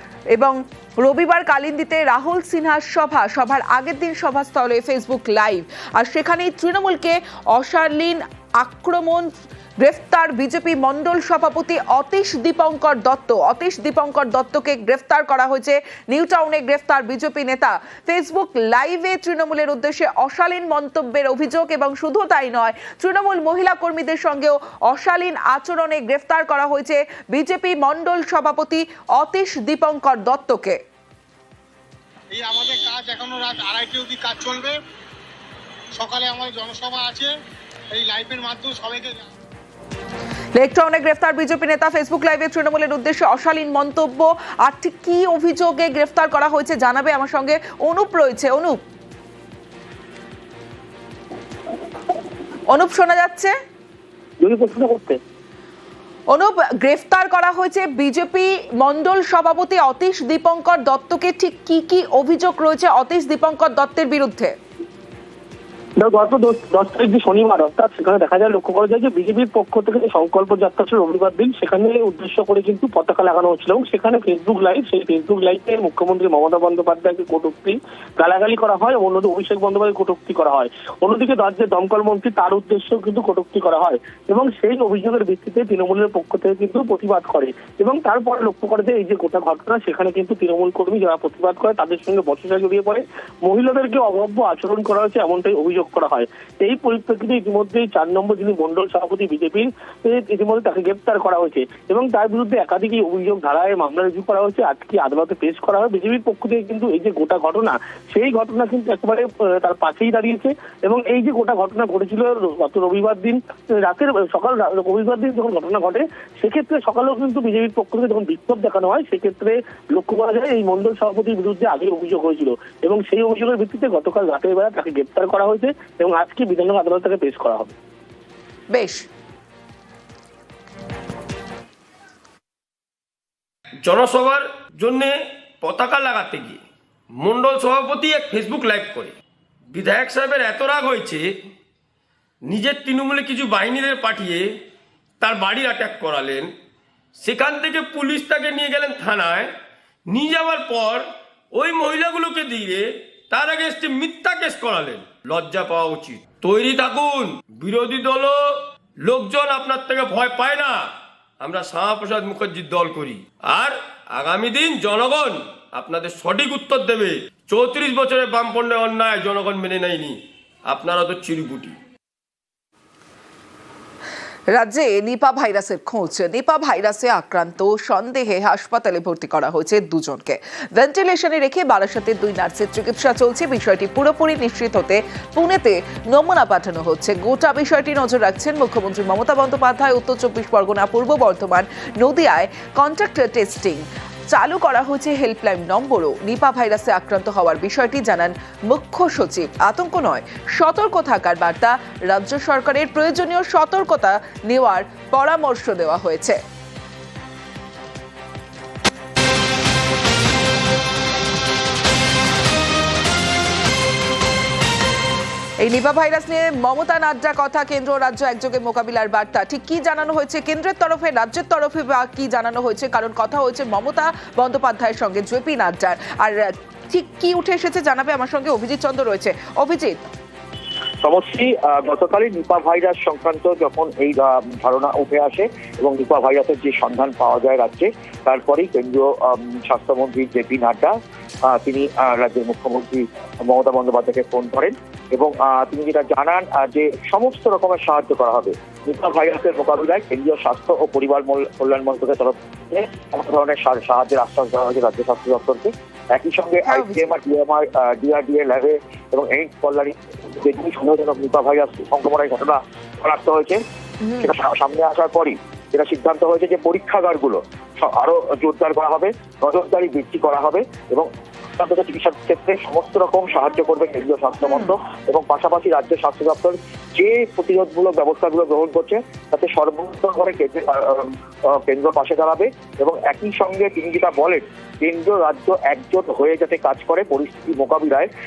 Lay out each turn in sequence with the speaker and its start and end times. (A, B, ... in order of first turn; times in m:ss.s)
0:00.3-0:09.3 A
0:09.8-0:30.8 A
0:32.3-0:34.8 B
0:36.0-0:37.3 B
0:37.9-0:39.3 B
0:40.6-0:48.8 A
0:52.7-0:53.5 A
0:54.4-0:55.2 C
0:56.3-1:04.6 A
1:06.0-2:07.8 C
2:08.7-2:09.1 A
2:13.8-2:16.6 D
2:17.2-2:19.1 D
2:19.7-2:21.3 D
2:22.5-2:24.4 D
2:25.2-2:26.5 D
2:27.2-2:29.5 D
2:30.1-2:40.8 D
2:41.4-2:51.8 D
2:54.5-3:26.4 A
3:35.6-3:50.0 A
3:51.0-4:01.0 E
4:01.5-4:23.6 E
4:16.6-4:17.1 A
4:24.2-4:48.1 E